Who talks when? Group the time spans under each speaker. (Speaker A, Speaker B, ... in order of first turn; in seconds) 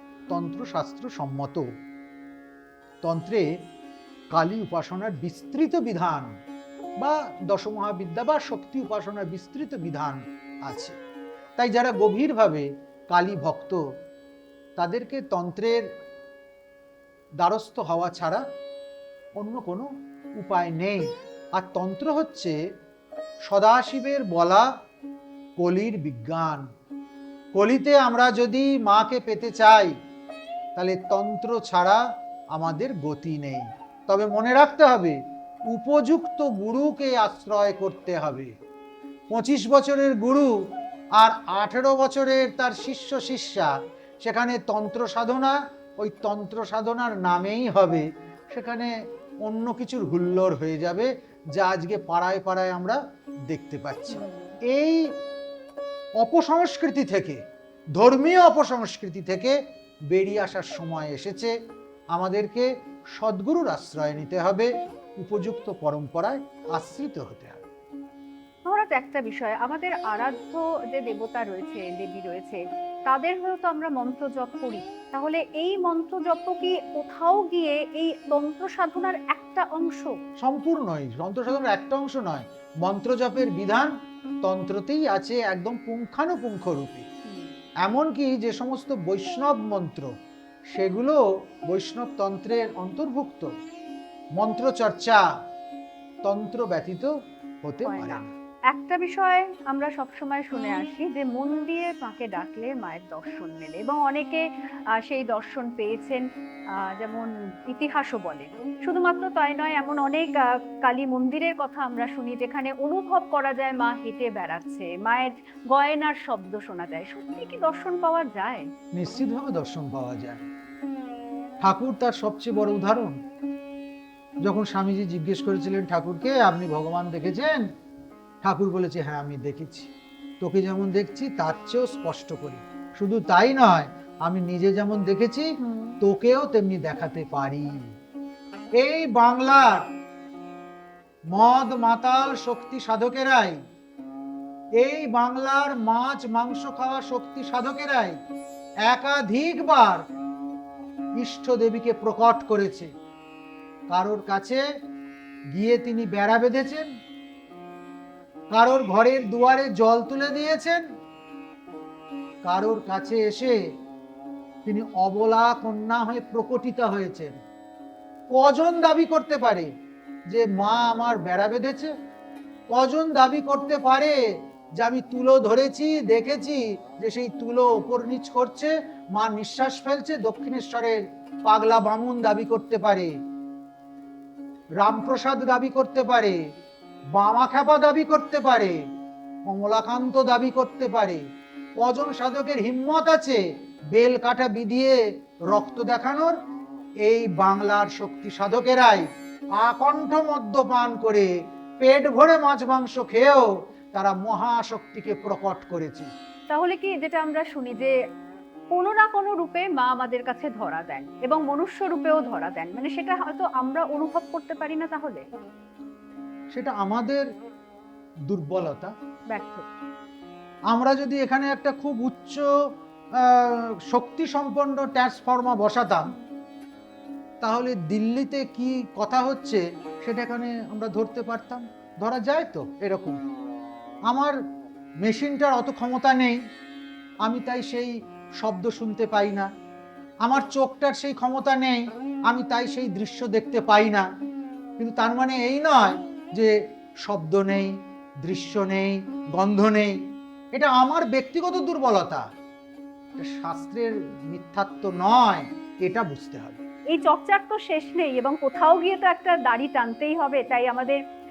Speaker A: 0.3-1.7, 3.0-3.5, 4.3-6.3, 7.0-11.0, 11.6-13.8, 14.8-15.8, 17.4-18.4, 19.4-22.6, 23.5-24.7, 25.6-26.7, 27.5-29.9, 30.8-32.0, 32.5-35.2, 35.7-38.5, 39.3-40.5, 41.1-48.9, 49.4-55.1, 56.2-57.4, 58.0-59.5, 60.1-61.5, 62.1-67.6, 80.4-83.9, 84.4-87.0, 87.8-90.1, 90.7-93.5, 94.4-95.2, 96.2-97.1, 97.6-98.3, 118.9-120.4, 121.6-123.2, 124.4-127.6, 128.4-129.9, 130.4-135.5, 136.0-137.8, 138.8-139.8, 141.3-143.6, 144.8-148.2, 148.8-150.0, 151.2-152.9, 153.9-154.6, 155.5-156.9, 158.5-160.8, 162.4-163.6, 164.6-167.3, 168.3-169.7, 170.3-171.9, 172.7-174.2, 174.8-183.1, 184.8-186.4, 187.1-188.8, 189.5-191.2, 191.8-193.4, 193.9-196.4, 197.0-199.1, 199.6-201.3, 201.8-206.1, 216.5-217.2, 218.3-218.9, 220.7-222.5, 223.2-226.1, 227.4-233.2, 234.1-234.3, 235.0-236.4, 237.2-239.5, 240.2-244.1, 244.8-247.7, 248.2-249.9, 250.5-252.2, 253.2-256.6
Speaker B: 54.1-54.6, 68.7-80.2, 97.8-106.2, 106.8-118.7, 135.6-136.0, 206.5-207.9, 208.7-215.2, 219.3-219.7, 256.9-261.0